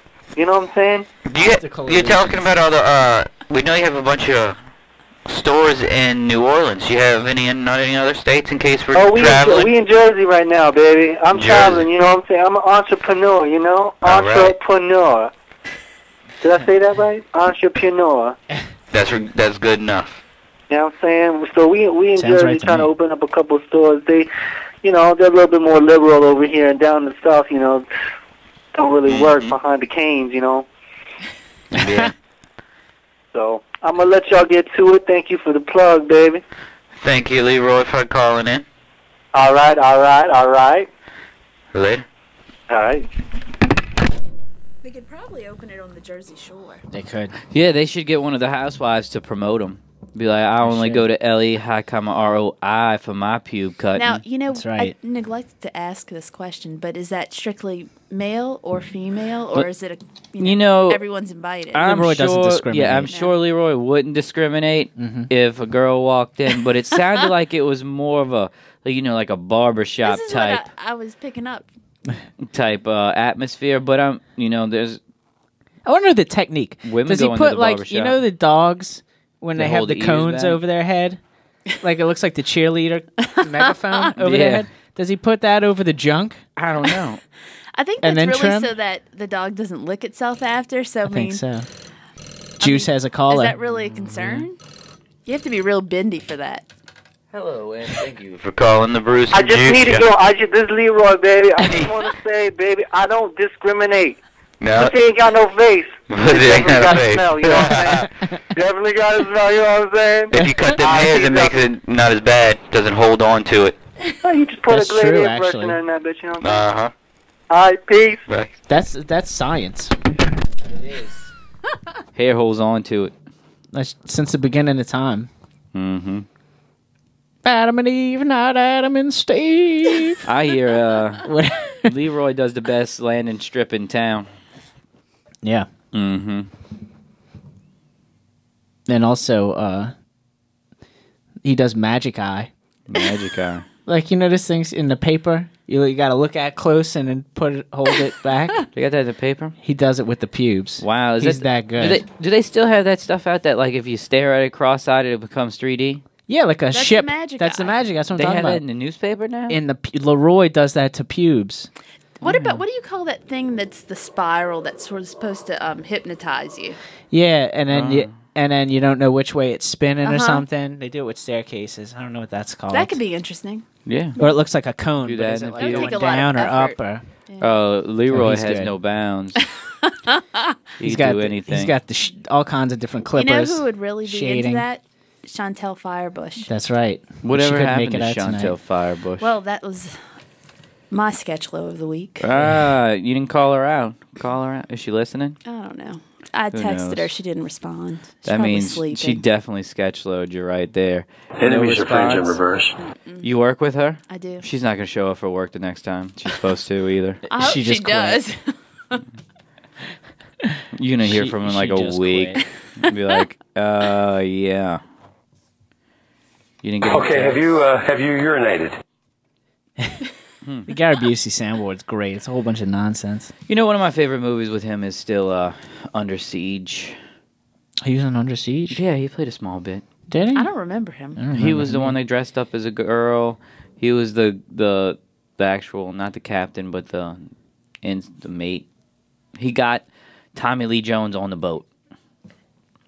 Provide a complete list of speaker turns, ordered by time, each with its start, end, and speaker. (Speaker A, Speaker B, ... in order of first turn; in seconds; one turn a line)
Speaker A: 0.4-1.1
Speaker B: 1.2-4.6
Speaker C: 1.4-2.5
Speaker B: 5.3-9.7
Speaker A: 8.9-15.3
Speaker B: 11.3-11.9
Speaker B: 14.0-14.6
Speaker A: 16.4-18.4
Speaker B: 18.9-20.2
Speaker A: 20.7-24.3
Speaker C: 22.2-22.9
Speaker A: 24.8-27.9
Speaker A: 28.8-30.7
Speaker B: 29.1-29.5
Speaker C: 31.8-32.1
Speaker B: 31.8-32.1
Speaker A: 33.3-36.4
Speaker B: 37.0-38.6
Speaker A: 39.3-40.9
Speaker B: 41.7-42.0
Speaker A: 42.7-43.1
Speaker D: 44.8-46.8
Speaker C: 46.9-47.3
Speaker E: 47.5-54.2
Speaker C: 50.6-51.1
Speaker D: 54.0-61.9
Speaker C: 54.5-54.9
Speaker E: 60.4-61.0
Speaker E: 61.7-70.7
Speaker C: 61.8-63.1
Speaker D: 63.1-63.4
Speaker C: 65.0-65.3
Speaker D: 70.0-71.7
Speaker E: 72.4-75.0
Speaker C: 75.9-81.2
Speaker E: 76.8-78.2
Speaker E: 79.6-80.6
Speaker C: 81.8-86.4
Speaker D: 83.5-84.0
Speaker E: 84.2-84.7
Speaker E: 86.6-87.2
Speaker D: 87.7-91.4
Speaker C: 88.0-88.7
Speaker C: 91.1-91.7
Speaker C: 92.6-93.6
Speaker D: 92.6-94.6
Speaker C: 94.2-94.4
Speaker D: 95.3-96.7
Speaker E: 97.3-98.4
Speaker B: 98.4-100.1
Speaker A: 99.3-104.2
Speaker B: 104.6-105.0
Speaker A: 104.8-111.5
Speaker B: 106.1-108.1
Speaker B: 110.3-113.8
Speaker A: 114.2-116.7
Speaker C: 114.7-115.8
Speaker B: 116.4-116.9
Speaker A: 117.5-118.2
Speaker C: 118.7-120.0
Speaker E: 122.2-123.1
Speaker C: 123.7-125.3
Speaker E: 125.7-126.3
Speaker C: 127.5-130.2
Speaker E: 130.2-131.3
Speaker C: 131.2-131.9
Speaker E: 131.8-134.3
Speaker C: 135.4-135.7
Speaker E: 135.9-136.5
Speaker C: 138.9-139.9
Speaker C: 141.4-142.5
Speaker E: 142.9-143.7
Speaker C: 143.9-148.6
Speaker E: 148.8-149.6
Speaker C: 149.6-152.0
Speaker E: 150.8-156.0
Speaker C: 156.3-158.6
Speaker D: 156.7-157.8
Speaker E: 158.2-159.6
Speaker C: 159.5-161.7
Speaker D: 162.2-166.8
Speaker C: 162.2-162.6
Speaker C: 167.1-173.0
Speaker E: 167.7-168.2
Speaker D: 170.0-170.4
Speaker D: 172.7-173.7
Speaker E: 173.9-174.2
Speaker C: 174.2-177.0
Speaker E: 175.1-176.3
Speaker D: 175.6-176.8
Speaker D: 177.3-177.6
Speaker E: 177.4-179.4
Speaker C: 178.1-178.7
Speaker D: 180.1-180.4
Speaker E: 180.8-181.7
Speaker C: 180.8-184.7
Speaker D: 183.1-186.5
Speaker C: 186.5-188.5
Speaker E: 187.2-189.3
Speaker D: 189.2-190.0
Speaker D: 190.9-192.3
Speaker E: 192.2-195.4
Speaker D: 195.4-199.2
Speaker E: 196.5-197.1
Speaker E: 198.2-202.4
Speaker F: 201.4-202.8
Speaker D: 202.8-203.3
Speaker E: 203.2-207.2
Speaker D: 204.1-204.5
Speaker D: 207.3-209.0
Speaker C: 207.3-208.2
Speaker E: 210.8-214.8
Speaker C: 211.0-212.4
Speaker E: 216.6-217.5
Speaker F: 216.8-218.8
Speaker E: 220.4-220.7
Speaker C: 220.7-223.3
Speaker E: 223.5-227.0
Speaker C: 227.8-228.8
Speaker E: 228.7-229.8
Speaker C: 230.1-230.5
Speaker D: 230.3-231.2
Speaker C: 231.2-232.0
Speaker E: 231.3-237.3
Speaker E: 237.8-238.7
Speaker E: 239.4-241.7